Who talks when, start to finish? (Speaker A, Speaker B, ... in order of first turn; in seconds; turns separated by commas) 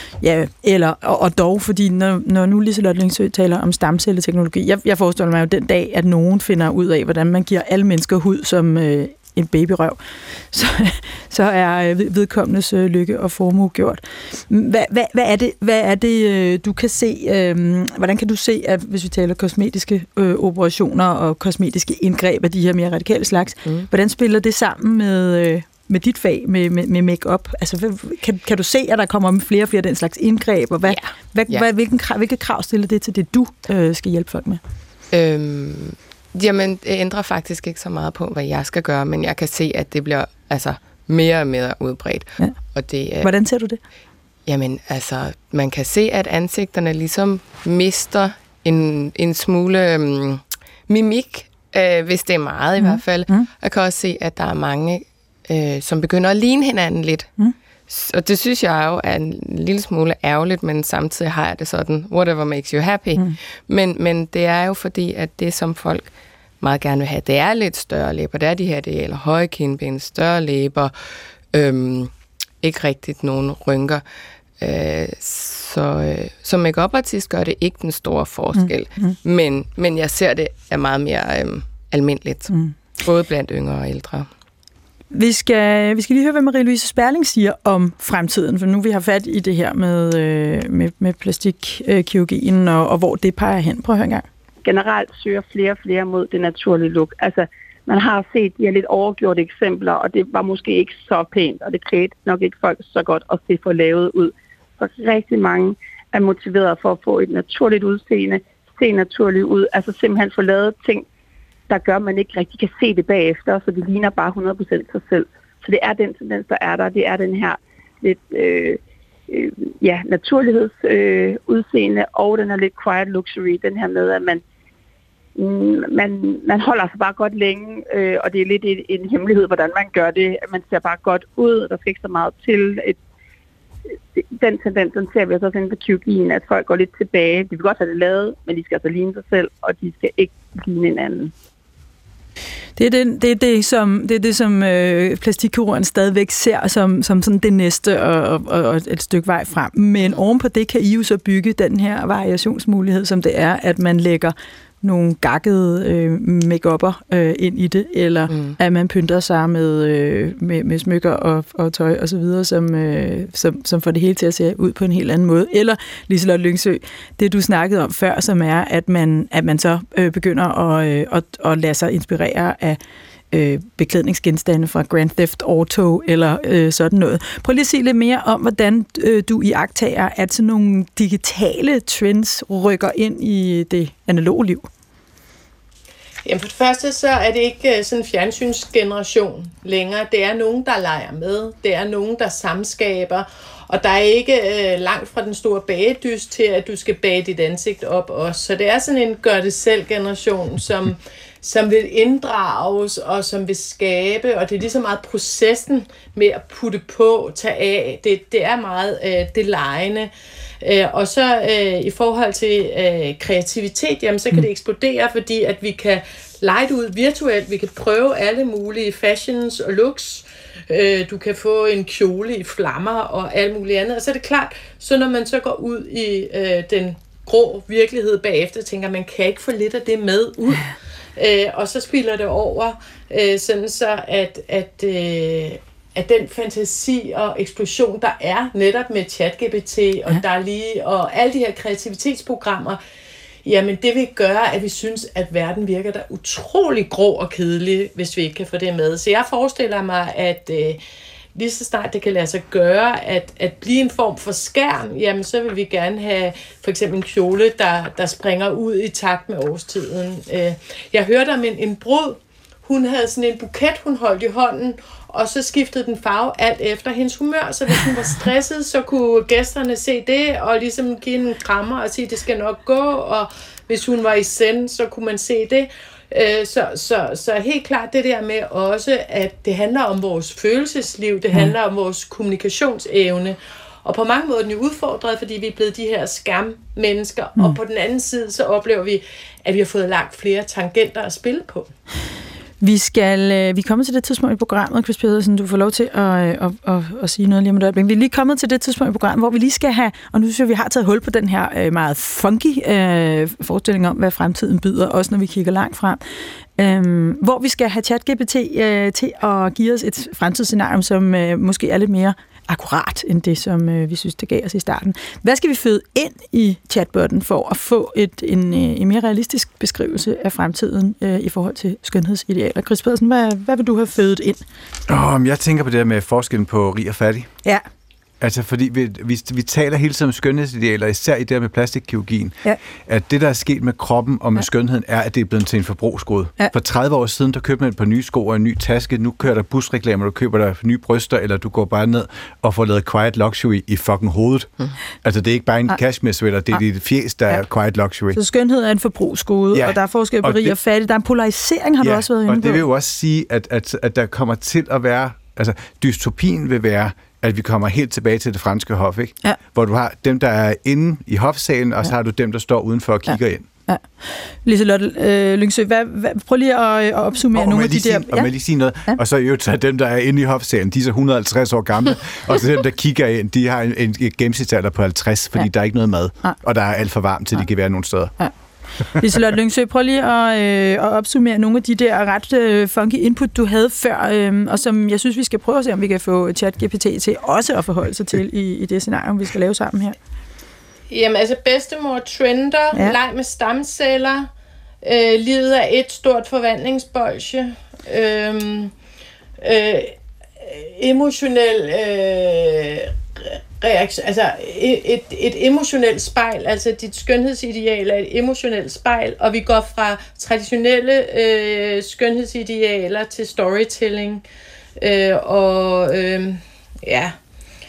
Speaker A: 0.2-10.0, Speaker A: 10.5-34.6, Speaker B: 30.9-31.6, Speaker B: 35.1-43.3, Speaker A: 43.2-43.8, Speaker B: 44.5-57.3, Speaker A: 52.8-53.5, Speaker B: 57.9-70.9, Speaker B: 71.5-72.1, Speaker B: 72.6-74.0, Speaker B: 74.6-84.3, Speaker A: 78.5-79.2, Speaker A: 85.1-94.2, Speaker C: 94.6-111.0, Speaker C: 111.7-124.4, Speaker C: 125.3-133.0, Speaker C: 134.2-141.3, Speaker A: 142.8-172.8, Speaker B: 158.3-158.6, Speaker A: 173.3-184.7, Speaker D: 186.2-210.1, Speaker D: 210.6-242.8, Speaker D: 243.4-250.8, Speaker D: 251.3-291.7, Speaker A: 292.6-306.0, Speaker A: 306.6-324.4, Speaker E: 324.9-327.3, Speaker E: 328.2-344.5, Speaker E: 345.0-348.2, Speaker A: 348.1-352.6, Speaker E: 349.5-350.6, Speaker E: 351.8-363.4, Speaker A: 363.1-368.3, Speaker E: 367.3-378.1, Speaker A: 378.9-389.9, Speaker D: 390.9-394.3, Speaker D: 394.8-398.7, Speaker D: 399.4-414.2, Speaker D: 414.8-417.1